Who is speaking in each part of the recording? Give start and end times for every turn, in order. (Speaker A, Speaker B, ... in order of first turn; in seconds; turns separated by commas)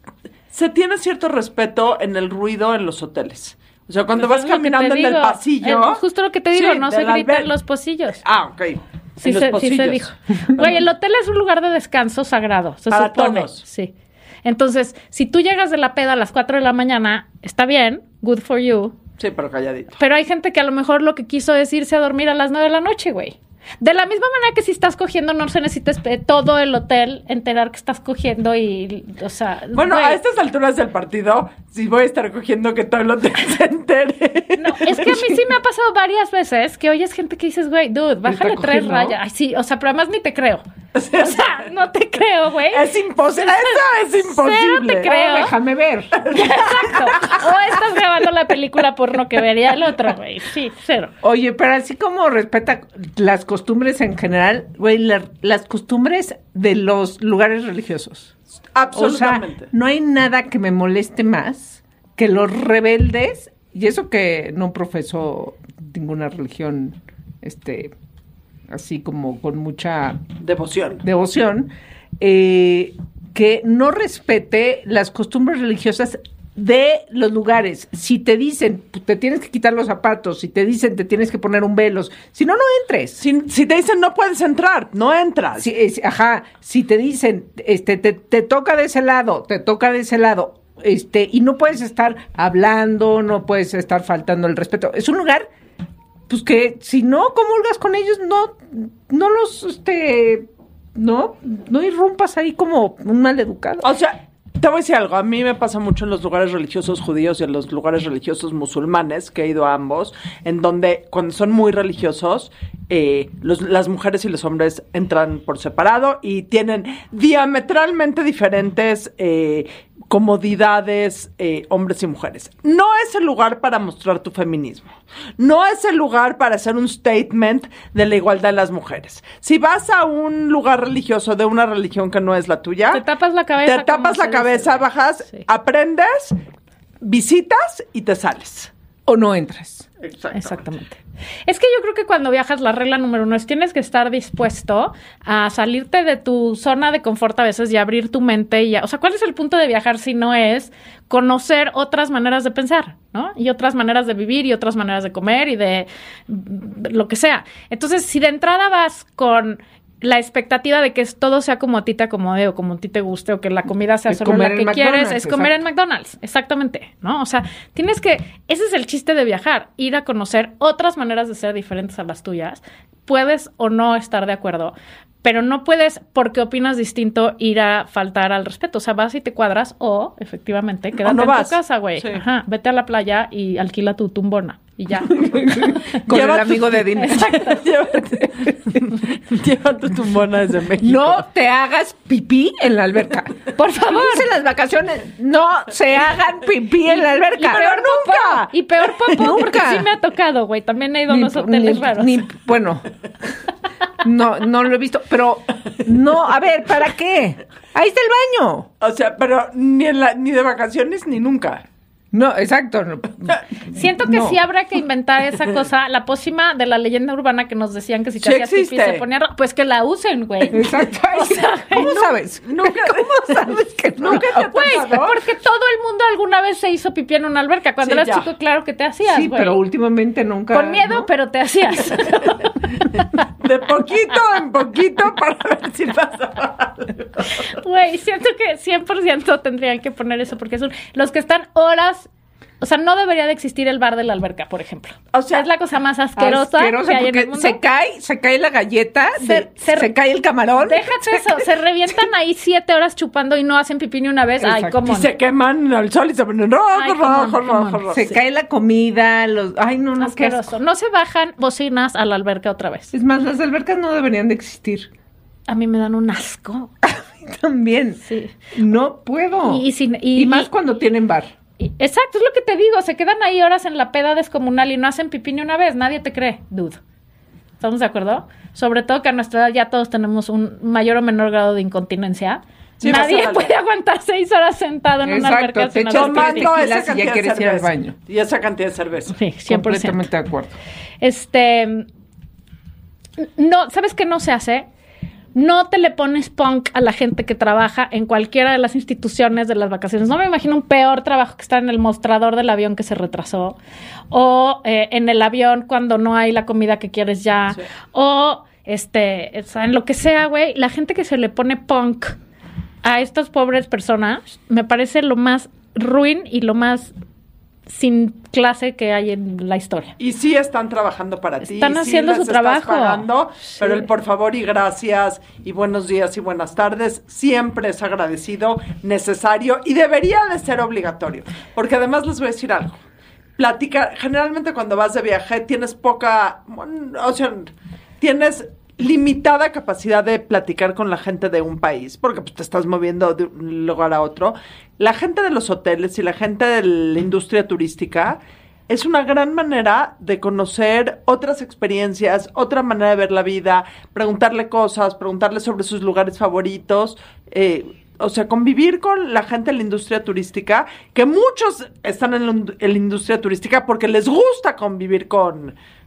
Speaker A: 0.5-6.0, Speaker B: 4.2-8.2, Speaker A: 6.5-7.5, Speaker A: 8.2-10.8, Speaker B: 9.2-13.9, Speaker A: 12.9-13.6, Speaker B: 14.4-19.0, Speaker A: 19.2-20.0, Speaker B: 20.0-30.2, Speaker A: 29.7-35.3, Speaker B: 34.6-40.6, Speaker C: 38.2-39.1, Speaker A: 41.0-41.6, Speaker B: 41.2-45.5, Speaker A: 42.7-45.1, Speaker C: 45.0-46.2, Speaker A: 46.2-47.4, Speaker B: 46.3-51.1, Speaker C: 51.2-58.3, Speaker A: 58.7-59.7, Speaker C: 59.0-67.9, Speaker C: 68.7-70.2, Speaker A: 70.4-71.0, Speaker C: 71.0-83.2, Speaker A: 83.2-85.7, Speaker C: 85.6-95.5, Speaker C: 96.3-103.9, Speaker A: 103.8-133.0, Speaker B: 132.9-135.4, Speaker A: 133.6-136.4, Speaker A: 137.0-138.7, Speaker C: 139.1-139.9, Speaker A: 140.0-140.6, Speaker B: 140.3-186.0, Speaker C: 164.1-165.6, Speaker A: 181.0-182.2, Speaker C: 185.1-187.5, Speaker A: 185.9-191.2, Speaker B: 187.0-187.6, Speaker C: 190.8-197.7, Speaker B: 193.6-194.3, Speaker B: 197.3-202.2, Speaker A: 197.4-198.5, Speaker C: 199.1-199.9, Speaker C: 201.1-202.9, Speaker C: 204.0-208.7, Speaker A: 208.8-211.6, Speaker C: 212.1-214.4, Speaker B: 213.7-222.0, Speaker A: 218.2-219.0, Speaker C: 220.5-224.8, Speaker A: 221.8-225.2, Speaker B: 224.3-229.6, Speaker A: 227.8-228.3, Speaker C: 229.1-231.1, Speaker B: 230.5-232.5, Speaker A: 233.4-237.4, Speaker B: 237.5-242.1, Speaker B: 242.6-247.6, Speaker A: 245.1-245.5, Speaker C: 246.2-251.4, Speaker B: 249.2-249.9, Speaker B: 250.6-255.1, Speaker C: 254.4-254.8, Speaker A: 254.8-258.0, Speaker B: 256.8-258.1, Speaker C: 257.9-260.5, Speaker B: 260.0-262.9, Speaker C: 262.9-264.9, Speaker B: 265.5-266.7, Speaker C: 266.8-268.0, Speaker B: 268.1-268.3, Speaker C: 268.5-269.6, Speaker B: 269.5-270.5, Speaker C: 270.2-271.3, Speaker B: 271.6-276.8, Speaker B: 277.6-286.6, Speaker A: 282.8-283.6, Speaker C: 285.0-288.0, Speaker A: 285.9-289.2, Speaker B: 289.1-290.1, Speaker C: 289.5-290.6, Speaker B: 291.0-291.9, Speaker B: 293.2-294.7, Speaker B: 295.4-303.6, Speaker B: 304.1-312.2, Speaker B: 312.8-316.9, Speaker B: 317.7-319.9, Speaker A: 320.0-332.8, Speaker B: 321.4-323.1, Speaker A: 333.4-365.6